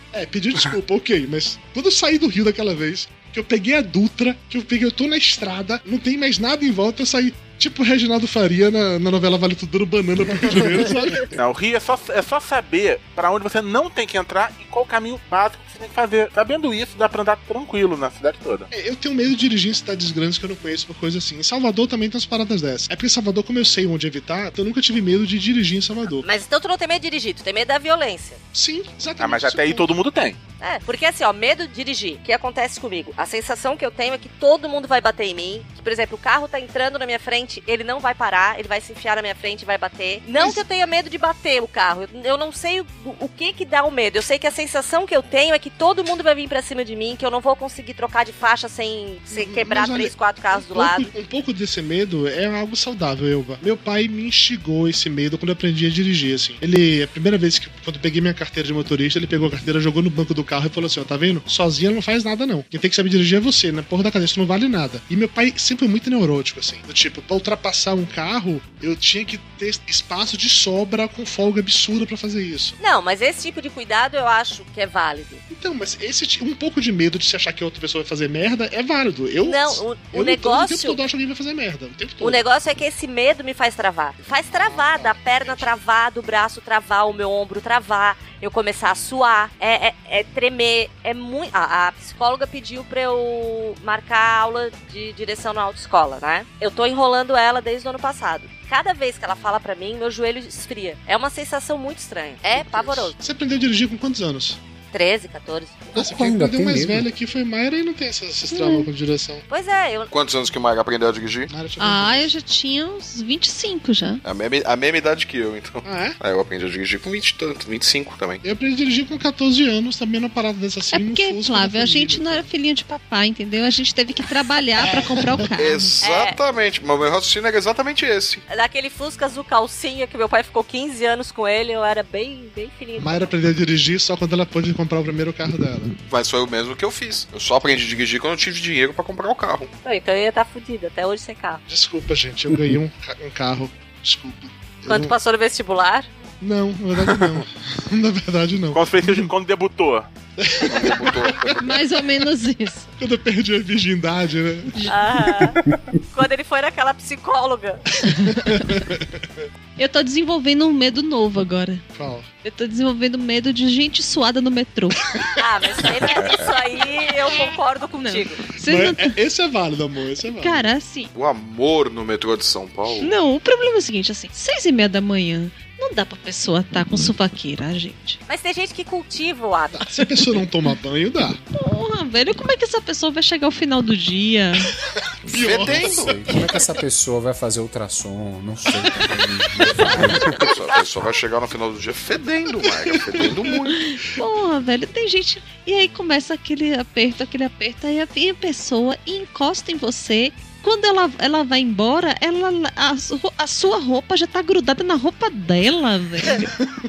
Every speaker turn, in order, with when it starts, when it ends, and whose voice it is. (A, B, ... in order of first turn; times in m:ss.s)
0:00.1-0:11.3 A
0:11.3-0:18.7 B
0:18.7-0:26.3 A
0:26.2-0:28.4 C
0:28.5-0:29.9 A
0:29.2-0:30.4 B
0:30.6-0:51.1 C
0:40.3-0:40.6 A
0:49.3-1:12.8 A
1:12.8-1:15.4 C
1:15.5-1:22.4 A
1:19.4-1:21.0 C
1:22.2-1:43.1 C
1:24.5-1:25.7 A
1:42.5-1:44.6 A
1:44.9-1:45.9 C
1:45.9-1:49.4 A
1:46.0-1:47.1 D
1:48.5-1:48.9 E
1:49.5-1:50.1 C
1:50.1-1:51.5 F
1:51.5-1:52.3 A
1:51.8-1:54.2 E
1:54.2-1:58.4 F
1:55.8-1:56.2 A
1:58.4-2:02.5 A
2:00.9-2:05.9 E
2:04.8-2:05.4 A
2:05.5-2:08.4 F
2:06.0-2:06.4 C
2:08.5-2:13.3 C
2:13.0-2:16.0 A
2:16.0-2:19.7 F
2:19.8-2:21.6 C
2:21.7-2:25.1 A
2:24.9-2:26.1 C
2:26.4-2:29.3 A
2:28.7-2:30.1 B
2:30.4-2:31.5 A
2:30.6-2:31.8 F
2:31.6-2:32.9 E
2:33.0-2:34.8 A
2:34.9-2:35.6 C
2:36.1-2:37.8 C
2:38.0-2:39.3 A
2:38.2-2:38.6 E
2:39.8-2:41.8 E
2:41.9-2:42.3 A
2:42.4-2:45.0 E
2:45.4-2:48.4 C
2:48.0-2:49.2 E
2:48.6-2:50.7 A
2:50.2-2:51.1 E
2:51.1-2:53.1 F
2:53.0-2:58.2 E
2:58.3-2:59.8 C
2:59.7-3:01.4 A
3:01.5-3:04.7 E
3:05.2-3:06.2 A
3:05.3-3:06.2 F
3:05.7-3:10.4 D
3:09.6-3:10.2 E
3:10.2-3:13.8 F
3:12.9-3:13.5 A
3:13.8-3:26.5 E